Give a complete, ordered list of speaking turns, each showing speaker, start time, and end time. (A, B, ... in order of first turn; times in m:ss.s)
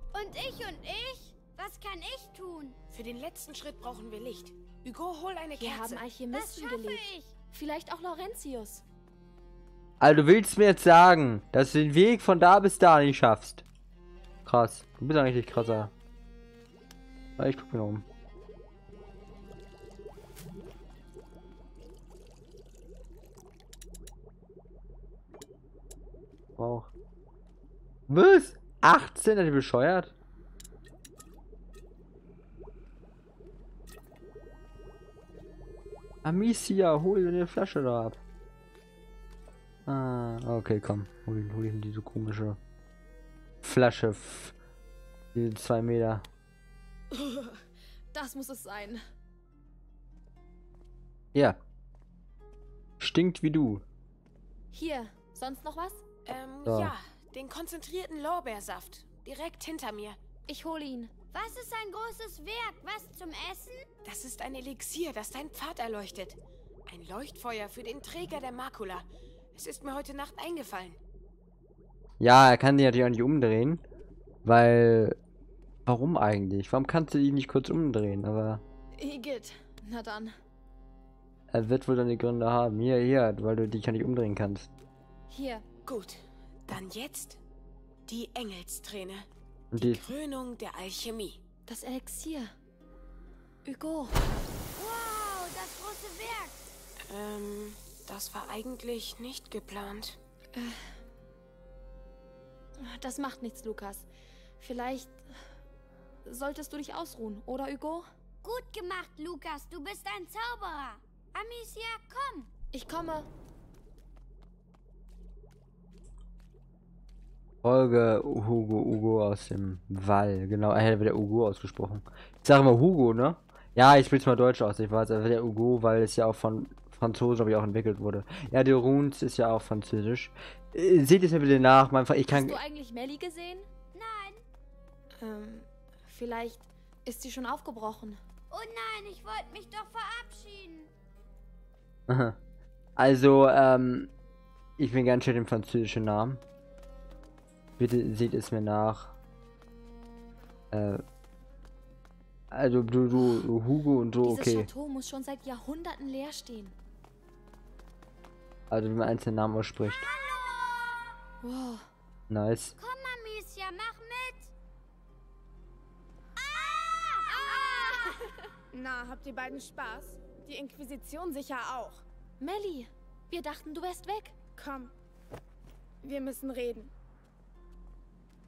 0:00.1-0:02.8 A
0:02.9-0:06.0 B
0:05.6-0:08.8 C
0:06.3-0:07.3 A
0:10.0-0:13.6 D
0:14.4-0:15.9 D
0:17.4-0:18.0 D
0:26.6-0:26.9 D
0:28.1-0:30.1 D
0:36.2-0:38.2 D
0:39.8-0:42.6 D
0:43.6-0:44.5 D
0:45.3-0:46.2 D
0:47.1-0:47.6 E
0:48.1-0:49.0 C
0:53.0-0:53.8 D
0:54.7-0:56.0 C
0:56.3-1:00.2 B
0:56.6-0:56.9 D
1:00.5-1:01.1 C
1:01.3-1:03.9 A
1:04.0-1:11.0 B
1:12.2-1:13.8 D
1:14.4-1:15.2 D
1:15.8-1:18.6 D
1:19.0-1:20.3 C
1:21.5-1:24.7 D
1:25.3-1:25.6 C
1:25.8-1:27.4 B
1:28.1-1:31.4 B
1:29.7-1:30.1 D
1:31.7-1:32.5 C
1:33.6-1:34.2 C
1:34.8-1:36.6 A
1:37.0-1:40.2 B
1:40.5-1:41.0 C
1:42.8-1:44.1 C
1:44.6-1:45.2 C
1:46.2-1:48.1 C
1:48.4-1:52.5 A
1:52.7-1:53.3 C
1:57.6-2:12.6 D
2:12.3-2:13.7 C
2:13.9-2:14.4 A
2:15.2-2:18.2 C
2:18.5-2:20.9 A
2:22.1-2:22.4 D
2:23.0-2:24.1 D
2:24.8-2:26.4 D
2:27.8-2:29.2 D
2:30.7-2:31.0 D
2:32.5-2:34.7 D
2:33.2-2:33.4 C
2:34.2-2:36.8 C
2:38.7-2:40.1 D
2:39.8-2:41.2 A
2:41.4-2:41.9 C
2:42.3-2:42.8 D
2:42.8-2:44.5 A
2:46.4-2:48.2 A
2:47.3-2:48.5 C
2:48.7-2:52.0 E
2:52.4-2:54.4 C
2:54.6-2:54.9 E
2:56.0-2:56.9 E